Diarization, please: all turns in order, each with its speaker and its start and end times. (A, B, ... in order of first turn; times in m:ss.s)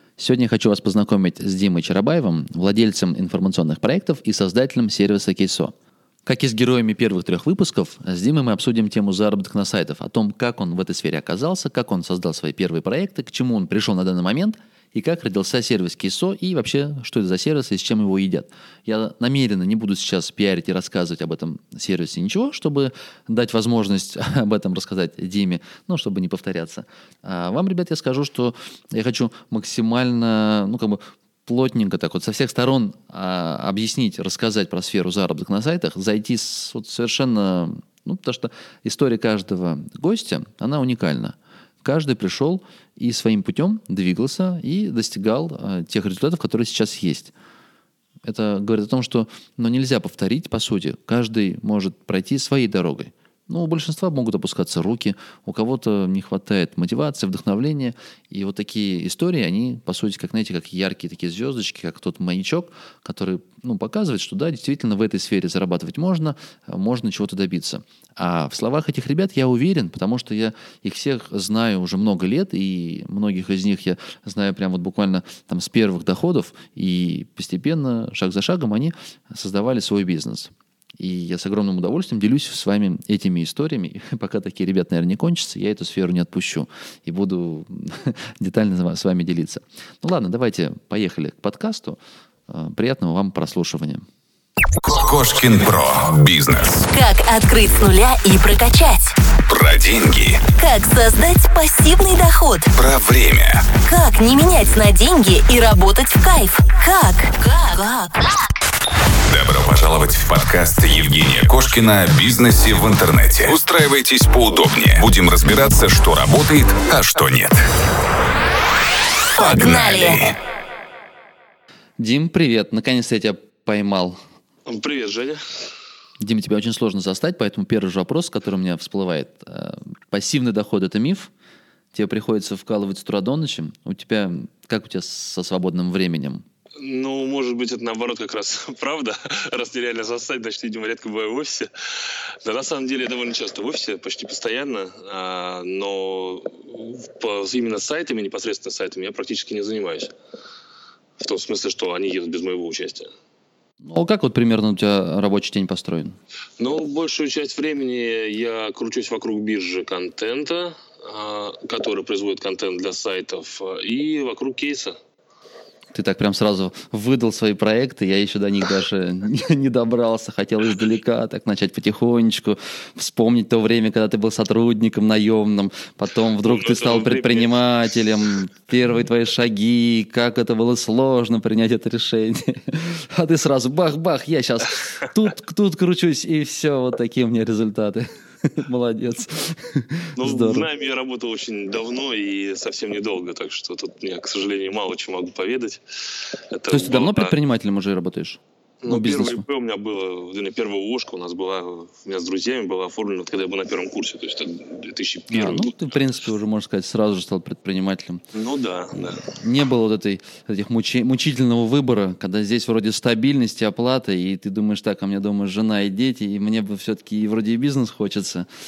0:00.2-0:05.7 A
0:06.3-0:47.3 A
0:48.2-1:34.0 A
1:34.8-1:36.9 B
1:36.9-1:39.2 C
1:39.5-1:40.5 B
1:40.6-1:42.7 C
1:42.8-1:43.7 B
1:43.8-1:48.5 C
1:49.3-1:57.6 B
1:59.4-2:00.3 B
1:59.4-2:00.2 C
2:02.0-2:04.2 A
2:04.7-2:05.4 D
2:06.2-2:11.3 A
2:11.9-2:16.4 A
2:16.8-2:30.1 D
2:31.2-2:33.1 D
2:33.8-2:36.2 A
2:36.6-2:45.0 D
2:45.9-3:10.7 A
2:56.4-2:57.5 D
3:10.2-3:15.8 D
3:16.5-3:17.4 D
3:16.7-3:19.4 A
3:18.8-3:25.9 D
3:25.3-3:28.2 A
3:28.3-3:29.3 D
3:29.1-3:38.5 A